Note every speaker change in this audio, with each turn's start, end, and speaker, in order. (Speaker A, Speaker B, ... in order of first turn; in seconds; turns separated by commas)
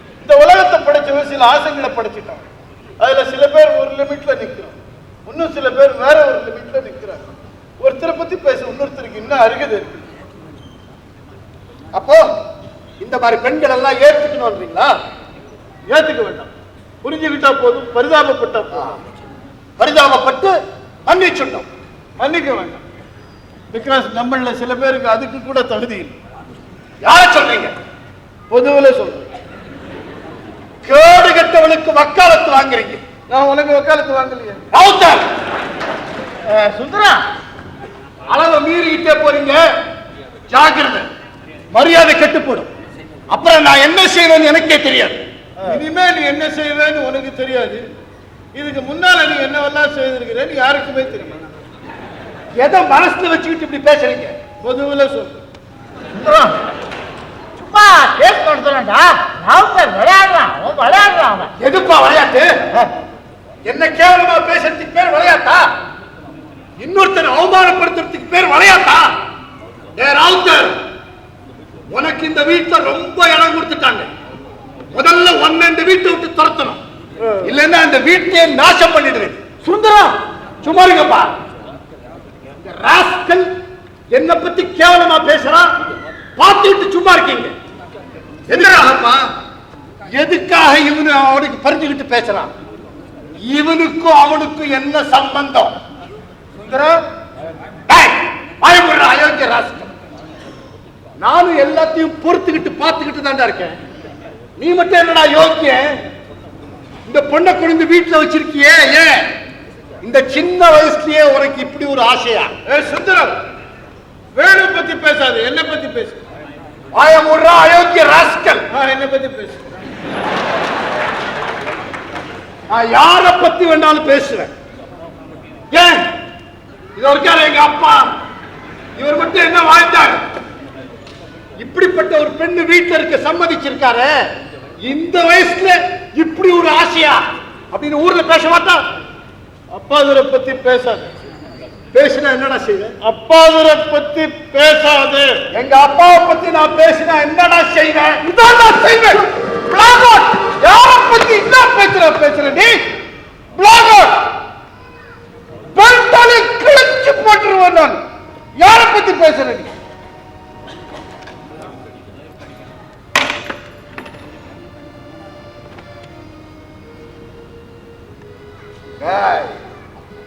Speaker A: 0.2-2.4, Speaker A: 3.0-7.2, Speaker A: 7.8-10.1, Speaker B: 11.9-12.3, Speaker B: 13.0-14.9, Speaker A: 15.9-16.5, Speaker A: 17.0-19.0, Speaker B: 19.8-20.6, Speaker B: 21.1-21.7, Speaker A: 22.2-22.8, Speaker A: 23.7-26.1, Speaker B: 27.0-27.7, Speaker A: 28.5-29.3, Speaker B: 30.8-33.0, Speaker A: 33.3-34.6, Speaker B: 34.7-35.3, Speaker C: 36.5-37.2, Speaker B: 38.3-39.6, Speaker B: 40.5-41.1, Speaker B: 41.7-42.7, Speaker B: 43.3-45.2, Speaker A: 45.6-47.8, Speaker A: 48.5-51.5, Speaker B: 52.6-54.4, Speaker A: 54.6-55.3, Speaker C: 56.1-56.5, Speaker C: 57.6-61.5, Speaker B: 61.6-62.6, Speaker B: 63.6-65.7, Speaker B: 66.8-69.1, Speaker B: 70.0-70.8, Speaker B: 71.9-74.1, Speaker B: 74.9-76.8, Speaker B: 77.4-81.4, Speaker B: 82.6-83.5, Speaker B: 84.1-85.7, Speaker B: 86.4-87.5, Speaker B: 88.5-89.3, Speaker B: 90.1-92.5, Speaker B: 93.4-95.8, Speaker B: 96.7-97.0, Speaker B: 97.9-99.9, Speaker B: 101.2-103.8, Speaker B: 104.6-105.9, Speaker B: 107.1-109.3, Speaker B: 110.0-112.5, Speaker A: 112.7-113.3, Speaker A: 114.3-116.2, Speaker B: 116.9-118.6, Speaker A: 118.7-119.7, Speaker B: 122.7-124.5, Speaker B: 125.7-126.1, Speaker B: 127.0-128.1, Speaker B: 128.9-130.2, Speaker B: 131.6-134.3, Speaker B: 134.8-138.8, Speaker A: 139.7-141.1, Speaker B: 141.9-142.9, Speaker A: 143.0-145.4, Speaker B: 145.5-152.8, Speaker B: 153.6-154.3, Speaker B: 155.7-158.0, Speaker B: 158.6-159.7, Speaker B: 169.0-169.6